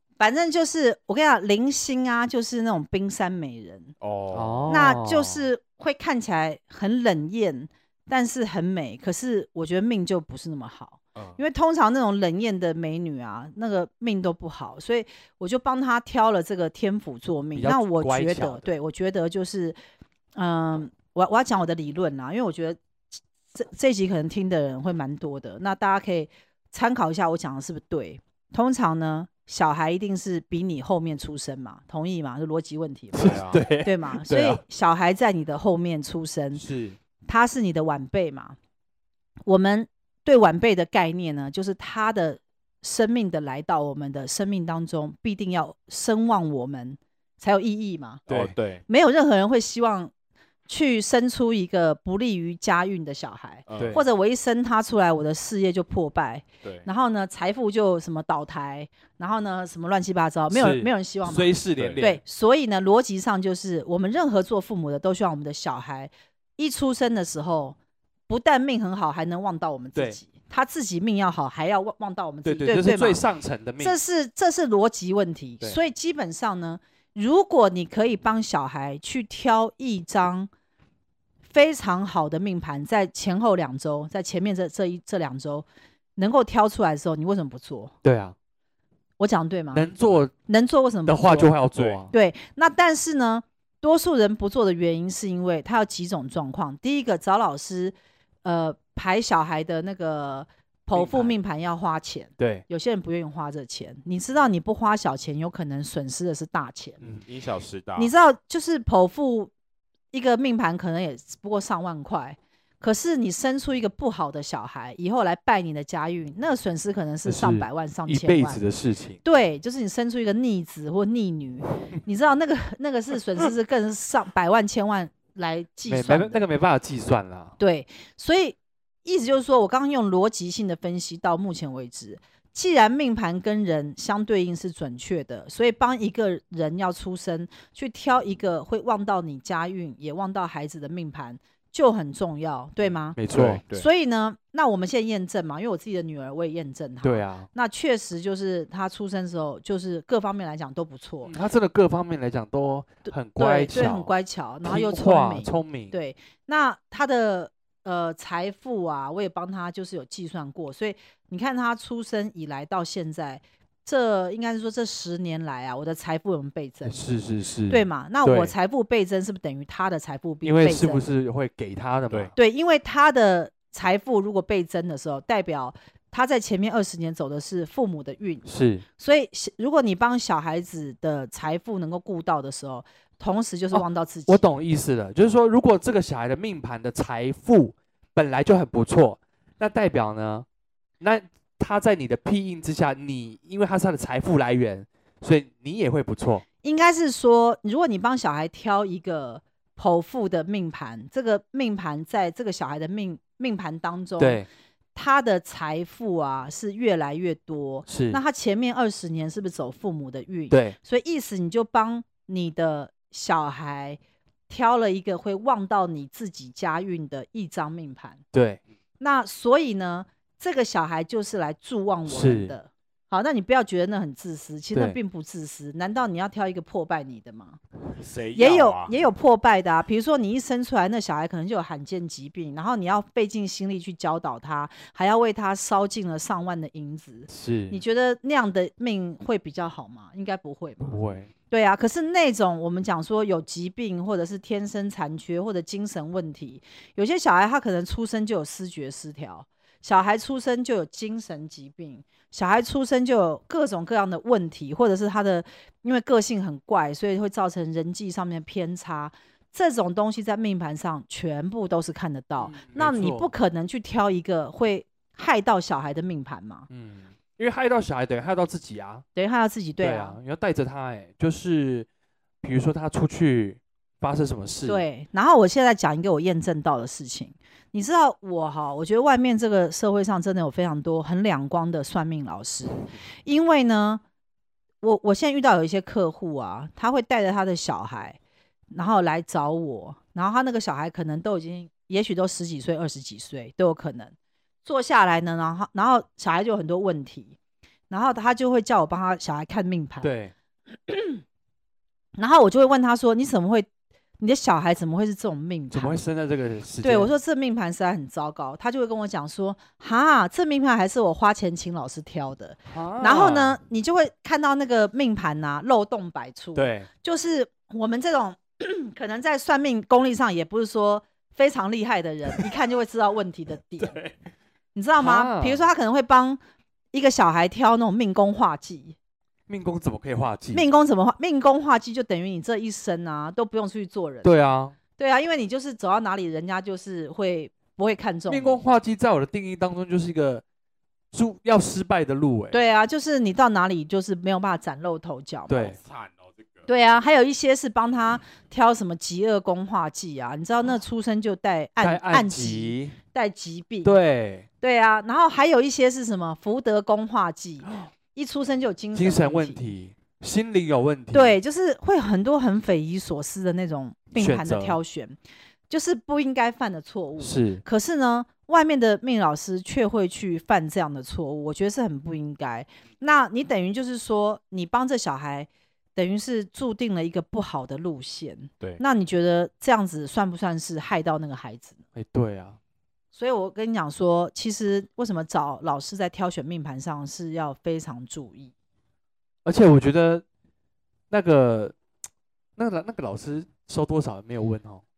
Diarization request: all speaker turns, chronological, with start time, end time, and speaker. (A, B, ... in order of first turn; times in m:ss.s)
0:00.2-0:03.9 A
0:04.0-0:04.8 B
0:04.3-0:05.4 C
0:04.7-0:19.8 A
0:11.1-0:11.4 B
0:17.5-0:18.7 C
0:20.4-0:22.8 A
0:23.5-0:36.6 A
0:33.1-0:34.6 C
0:33.2-0:33.6 B
0:36.6-0:37.0 C
0:37.2-0:38.6 A
0:39.5-0:48.2 A
0:48.3-0:48.8 B
0:48.3-0:48.5 C
0:48.9-0:50.1 A
0:50.7-1:07.8 A
0:53.7-0:54.0 B
0:53.8-0:54.0 C
1:00.5-1:02.2 C
1:01.8-1:02.0 B
1:08.3-1:13.2 A
1:12.4-1:14.0 C
1:13.8-1:20.5 A
1:21.5-1:25.6 A
1:26.2-1:27.9 A
1:28.0-1:28.3 C
1:29.2-1:29.9 A
1:29.7-1:30.3 C
1:30.4-1:31.5 A
1:31.0-1:32.1 C
1:31.7-1:32.1 B
1:32.1-1:47.0 A
1:40.9-1:41.3 C
1:42.4-1:42.6 C
1:47.2-1:48.1 B
1:48.0-1:49.5 A
1:50.1-1:58.6 A
1:57.2-1:59.2 C
1:59.2-2:06.4 A
2:05.9-2:07.5 C
2:07.6-2:23.2 A
2:23.2-2:23.6 C
2:23.3-2:23.9 B
2:23.7-2:31.3 A
2:27.0-2:27.5 C
2:31.2-2:34.1 C
2:33.4-2:47.0 A
2:34.6-2:35.9 C
2:46.8-2:48.5 C
2:47.7-2:51.0 A
2:50.4-2:52.3 C
2:52.4-2:58.4 A
2:58.4-2:58.8 C
2:59.0-3:04.4 A
3:03.7-3:10.4 C
3:11.0-3:16.4 C
3:16.6-3:24.4 A
3:24.2-3:24.5 C
3:24.9-3:38.2 A
3:27.9-3:28.2 C
3:30.5-3:30.8 C
3:38.3-3:38.6 C
3:39.0-3:47.6 A
3:42.1-3:42.5 C
3:48.0-3:48.9 B
3:48.3-4:26.7 A
3:57.3-3:57.8 C
4:00.8-4:01.3 C
4:22.4-4:23.3 C
4:26.7-4:29.0 C
4:29.1-4:30.2 A
4:29.8-4:31.9 C
4:32.4-4:34.8 C
4:34.6-4:44.0 A
4:44.8-4:48.2 A
4:48.7-4:54.1 A
4:54.6-4:57.4 A
4:57.9-5:00.1 A
5:00.0-5:00.3 C
5:00.9-5:01.2 A
5:02.2-5:03.7 A
5:04.2-5:06.0 A
5:05.7-5:07.1 C
5:06.8-5:24.0 A
5:12.7-5:13.6 C
5:16.5-5:16.9 C
5:24.7-5:26.4 A
5:25.0-5:25.6 C
5:26.9-5:29.0 A
5:29.5-5:30.6 C
5:30.5-5:34.4 A
5:34.2-5:34.7 C
5:35.0-5:38.6 A
5:38.3-5:40.4 C
5:41.1-5:42.6 C
5:42.5-5:45.8 A
5:45.5-5:45.8 C
5:45.7-5:46.7 B
5:46.7-5:53.9 A
5:51.8-5:53.0 C
5:53.8-5:54.4 C
5:54.6-5:59.6 A
5:58.9-6:01.4 C
6:01.1-6:05.2 A
6:04.2-6:04.8 C
6:05.7-6:21.8 A
6:07.2-6:07.6 C
6:21.9-6:22.6 C
6:23.1-6:28.5 A
6:29.4-6:30.2 C
6:31.1-6:31.7 C
6:32.6-6:34.8 C